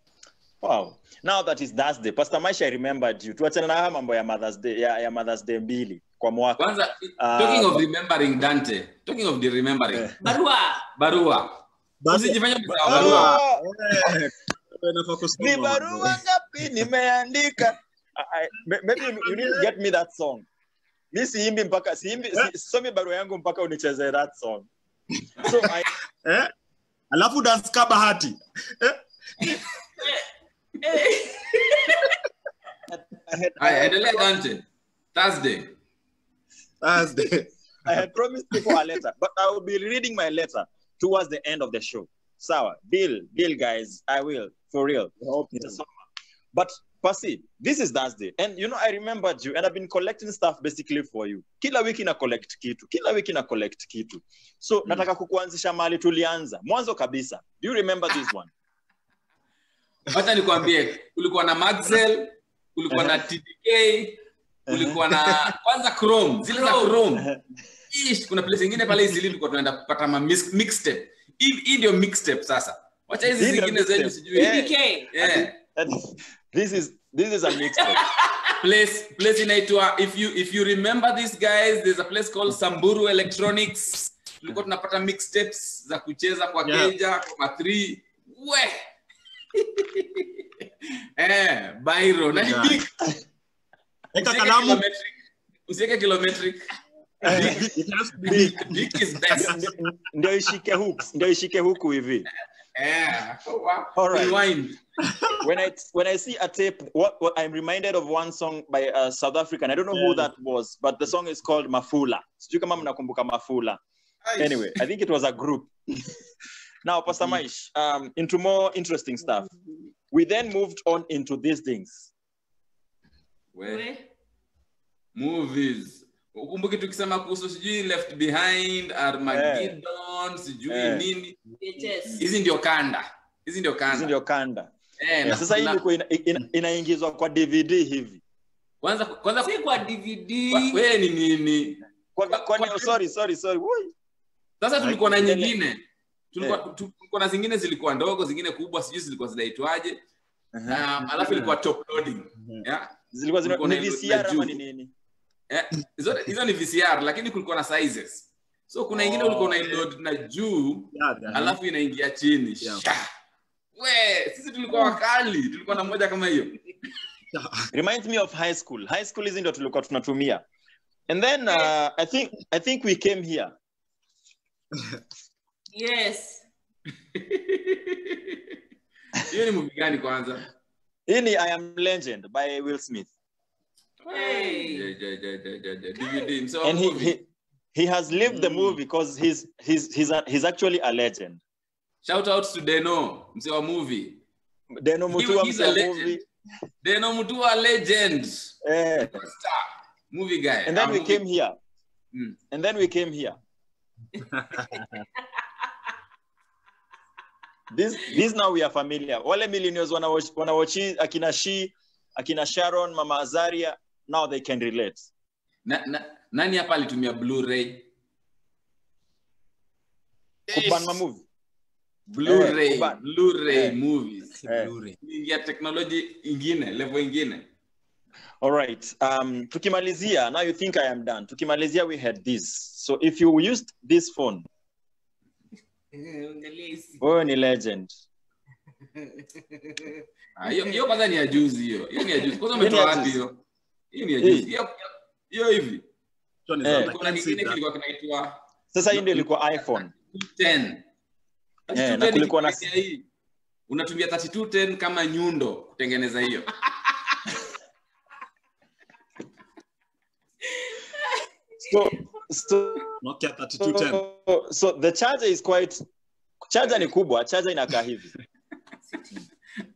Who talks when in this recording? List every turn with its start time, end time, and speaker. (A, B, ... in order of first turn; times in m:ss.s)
0:00.6-0:07.8 A
0:06.6-0:10.1 B
0:10.2-0:10.8 C
0:11.0-0:13.4 B
0:12.0-0:16.2 D
0:12.7-0:13.6 A
0:15.4-0:20.5 A
0:19.2-0:19.7 D
0:21.1-0:24.7 A
0:25.4-0:25.9 A
0:26.2-0:26.5 D
0:27.1-0:29.6 D
0:29.4-0:30.2 C
0:30.8-0:32.1 C
0:32.9-0:34.4 A
0:33.6-0:35.8 B
0:36.8-0:37.5 D
0:37.8-0:45.9 A
0:45.2-0:45.8 D
0:46.5-0:58.5 A
1:00.1-1:07.3 B
1:06.5-1:06.9 C
1:07.9-1:15.6 B
1:13.2-1:18.0 A
1:14.3-1:15.1 C
1:18.6-1:28.8 B
1:26.6-1:26.9 D
1:29.6-1:30.4 B
1:31.2-1:32.9 B
1:32.3-1:32.8 D
1:34.1-1:34.8 D
1:34.2-1:35.2 B
1:35.7-1:36.7 B
1:37.2-1:37.6 A
1:37.2-1:37.6 B
1:37.3-1:39.5 D
1:38.2-1:39.7 B
1:38.3-1:38.6 A
1:39.3-1:42.3 A
1:42.8-1:44.8 B
1:44.0-1:44.4 A
1:45.0-1:45.4 D
1:45.4-1:53.8 A
1:49.9-1:50.3 D
1:54.3-1:54.7 B
1:54.4-1:56.1 A
1:56.8-1:59.5 A
2:00.1-2:02.1 A
2:03.6-2:03.8 B
2:03.6-2:04.1 C
2:05.2-2:11.4 B
2:09.3-2:09.8 A
2:10.7-2:11.1 A
2:11.6-2:12.2 C
2:12.2-2:14.1 B
2:13.9-2:14.7 A
2:15.0-2:15.8 B
2:15.2-2:18.2 A
2:18.8-2:19.7 B
2:19.4-2:20.8 C
2:20.5-2:23.0 B
2:22.2-2:23.9 A
2:24.6-2:30.0 B
2:24.9-2:25.5 A
2:30.5-2:30.8 A
2:30.7-2:32.9 B
2:31.2-2:31.6 D
2:32.4-2:32.6 D
2:33.1-2:34.9 A
2:33.4-2:34.6 B
2:35.5-2:43.1 B
2:38.9-2:39.9 D
2:40.9-2:41.6 D
2:43.8-2:46.6 B
2:47.3-2:47.6 D
2:47.7-2:50.4 A
2:51.1-2:53.5 A
2:55.7-2:56.5 C
2:57.2-2:58.4 B
2:59.2-3:00.5 B
3:01.1-3:03.1 A
3:04.0-3:07.2 B
3:04.1-3:04.9 C
3:06.6-3:11.4 A
3:08.3-3:08.8 B
3:12.0-3:14.2 B
3:14.8-3:16.2 A
3:15.1-3:16.2 B
3:16.8-3:18.5 B
3:18.6-3:19.2 A
3:19.1-3:21.2 B
3:20.7-3:21.6 A
3:22.5-3:23.4 A
3:24.2-3:25.0 D
3:27.7-3:35.1 A
3:35.7-3:37.9 B
3:40.5-3:41.0 B
3:40.5-3:41.2 A
3:42.2-3:44.4 B
3:42.2-3:43.8 A
3:44.4-3:45.0 D
3:44.5-3:44.7 A
3:45.0-3:47.5 B
3:48.4-3:54.5 A
3:55.9-3:57.0 C
3:57.0-3:57.9 A
4:00.4-4:03.4 B
4:02.6-4:03.2 A
4:03.9-4:05.9 B
4:04.2-4:04.5 A
4:06.5-4:07.6 D
4:06.6-4:06.9 A
4:06.8-4:08.4 B
4:08.7-4:09.9 A
4:08.9-4:09.2 B
4:10.1-4:10.9 B
4:11.7-4:13.0 B
4:11.7-4:12.7 A
4:13.7-4:16.6 B
4:20.7-4:21.2 C
4:21.7-4:23.0 A
4:23.0-4:24.0 D
4:23.6-4:25.8 A
4:26.5-4:28.1 A